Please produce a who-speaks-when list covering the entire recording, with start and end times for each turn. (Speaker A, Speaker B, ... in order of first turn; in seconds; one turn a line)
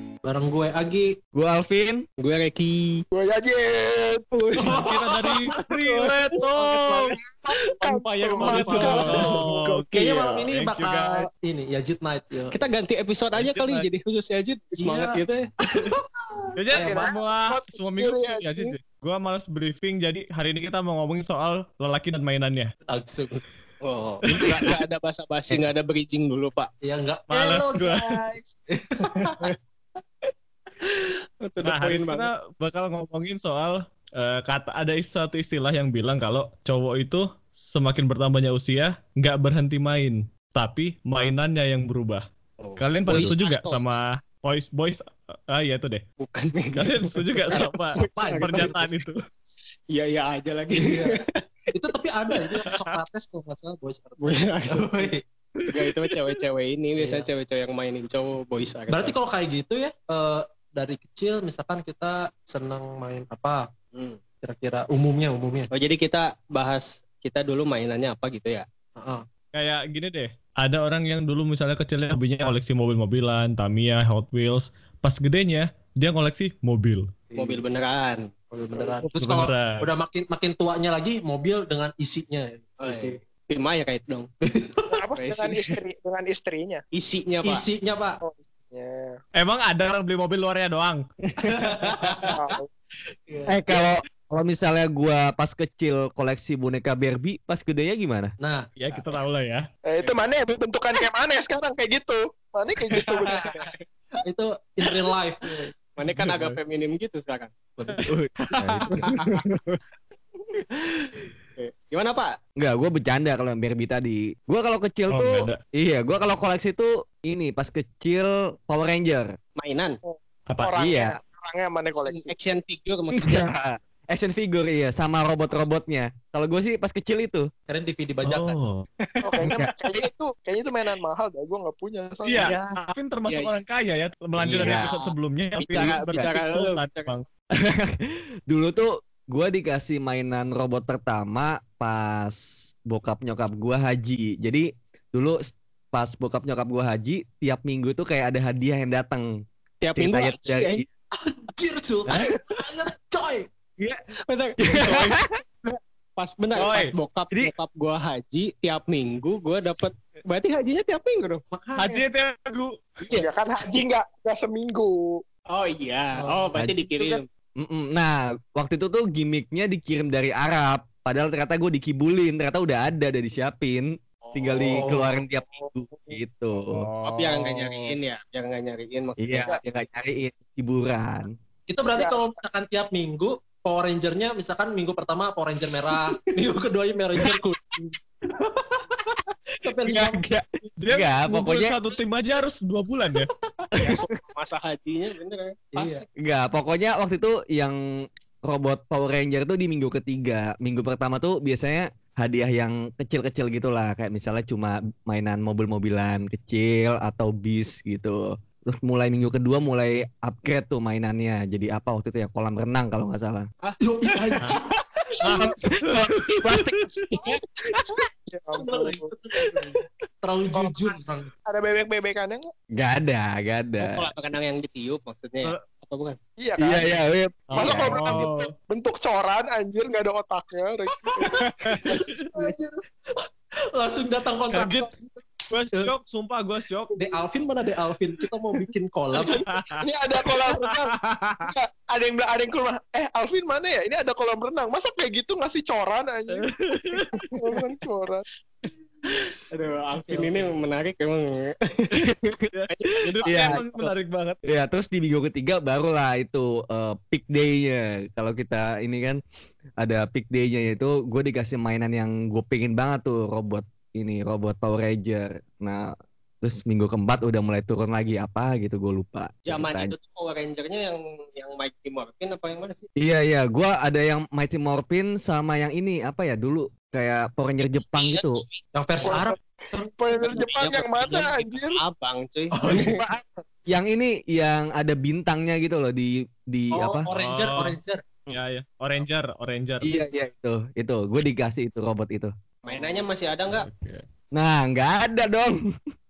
Speaker A: 0.2-1.1
Speaker B: 1.3-2.0
Speaker C: 2.2-3.0
Speaker D: 3.1-4.5
Speaker C: 4.3-4.8
Speaker A: 4.5-5.5
Speaker E: 4.8-7.1
Speaker D: 5.9-9.4
Speaker E: 7.9-9.9
Speaker C: 8.4-10.4
Speaker A: 8.4-9.3
Speaker A: 9.8-12.6
Speaker E: 10.4-11.3
Speaker C: 12.5-15.5
Speaker E: 13.3-13.9
Speaker A: 14.8-16.6
Speaker E: 16.6-22.7
Speaker D: 16.7-18.7
Speaker C: 16.8-17.0
Speaker A: 22.9-23.4
Speaker C: 23.8-26.7
Speaker E: 24.3-24.7
Speaker A: 26.8-29.5
Speaker E: 27.3-28.3
Speaker C: 29.1-29.5
Speaker C: 31.4-32.3
Speaker E: 31.6-42.2
Speaker C: 42.6-44.0
Speaker E: 42.8-46.0
Speaker B: 43.1-43.3
Speaker C: 46.2-48.9
Speaker E: 46.8-49.2
Speaker A: 47.4-49.0
Speaker C: 49.9-51.2
Speaker A: 50.7-51.2
Speaker A: 51.7-55.2
Speaker C: 54.2-55.1
Speaker C: 55.7-59.1
Speaker A: 57.0-57.3
Speaker A: 58.9-63.6
Speaker C: 63.9-64.2
Speaker A: 64.4-65.7
Speaker C: 65.7-68.7
Speaker A: 69.0-69.2
Speaker E: 69.5-77.1
Speaker A: 77.3-77.6
Speaker C: 77.3-78.3
Speaker A: 78.5-83.2
Speaker E: 79.1-79.9
Speaker C: 82.8-84.3
Speaker A: 84.4-85.0
Speaker D: 84.9-86.8
Speaker C: 85.2-85.7
Speaker C: 86.9-87.6
Speaker A: 87.4-88.2
Speaker D: 88.2-89.2
Speaker E: 89.3-91.0
Speaker C: 91.3-92.3
Speaker A: 91.4-92.6
Speaker D: 92.3-92.7
Speaker A: 93.3-93.5
Speaker B: 93.5-98.3
Speaker A: 98.4-98.7
Speaker E: 98.8-99.6
Speaker D: 99.8-103.7
Speaker C: 102.9-103.8
Speaker A: 104.2-105.7
Speaker C: 106.0-107.5
Speaker E: 106.0-106.6
Speaker A: 107.8-108.1
Speaker E: 108.6-109.0
Speaker B: 108.6-109.0
Speaker C: 108.9-109.8
Speaker C: 111.6-112.3
Speaker B: 112.6-119.3
Speaker E: 115.1-115.6
Speaker C: 119.6-120.0
Speaker D: 120.0-122.3
Speaker E: 120.5-120.8
Speaker B: 120.8-121.2
Speaker C: 122.0-123.5
Speaker B: 123.2-127.5
Speaker A: 127.7-128.5
Speaker E: 128.2-128.8
Speaker D: 129.2-132.5
Speaker E: 132.2-137.2
Speaker C: 132.4-133.5
Speaker B: 134.4-134.9
Speaker C: 134.5-135.1
Speaker C: 135.7-137.2
Speaker B: 135.7-136.3
Speaker B: 137.6-149.2
Speaker C: 149.8-150.8
Speaker B: 149.9-150.8
Speaker A: 151.1-153.5
Speaker C: 154.3-155.1
Speaker E: 154.7-155.2
Speaker C: 156.2-161.4
Speaker E: 156.6-157.5
Speaker A: 161.5-162.0
Speaker E: 161.8-162.8
Speaker D: 163.2-165.2
Speaker C: 165.5-167.2
Speaker A: 166.2-166.5
Speaker B: 166.6-176.7
Speaker C: 174.2-174.8
Speaker A: 174.7-175.2
Speaker D: 175.6-176.2
Speaker E: 176.7-177.9
Speaker C: 177.0-179.6
Speaker B: 179.2-181.3
Speaker A: 181.7-187.6
Speaker D: 181.9-182.3
Speaker A: 188.3-190.2
Speaker B: 189.8-191.8
Speaker E: 190.8-193.3
Speaker A: 193.6-194.0
Speaker C: 193.8-196.0
Speaker A: 195.7-196.1
Speaker B: 196.2-197.8
Speaker B: 198.4-213.5
Speaker C: 213.6-214.6
Speaker A: 213.8-214.8
Speaker E: 215.2-216.7
Speaker B: 215.2-217.9
Speaker D: 218.3-219.1
Speaker A: 218.5-221.3
Speaker D: 220.5-222.5
Speaker B: 222.8-224.1
Speaker C: 223.8-226.2
Speaker D: 226.4-227.0
Speaker B: 226.6-228.2
Speaker E: 227.5-228.5
Speaker D: 227.6-231.5
Speaker C: 231.3-231.9
Speaker A: 231.8-232.6
Speaker D: 232.3-232.7
Speaker A: 233.1-234.9
Speaker E: 234.5-234.9
Speaker E: 235.5-236.9
Speaker A: 236.9-239.4
Speaker D: 239.1-248.2
Speaker E: 239.5-239.8
Speaker E: 240.4-241.5
Speaker E: 246.3-247.3
Speaker C: 249.5-252.0
Speaker A: 250.0-250.5
Speaker E: 252.5-254.4
Speaker C: 252.7-253.6
Speaker B: 253.2-253.9
Speaker B: 254.4-259.2
Speaker B: 259.8-265.9
Speaker B: 266.4-269.9
Speaker C: 269.5-272.8
Speaker B: 273.0-278.4
Speaker C: 277.9-278.6
Speaker A: 278.7-279.9
Speaker D: 279.0-281.8
Speaker C: 280.1-283.0
Speaker A: 282.5-283.1
Speaker B: 283.7-287.1
Speaker A: 286.7-288.0
Speaker E: 287.1-287.8
Speaker E: 288.3-289.9
Speaker B: 289.8-292.3
Speaker C: 292.6-293.6
Speaker E: 293.5-294.0
Speaker B: 294.3-295.5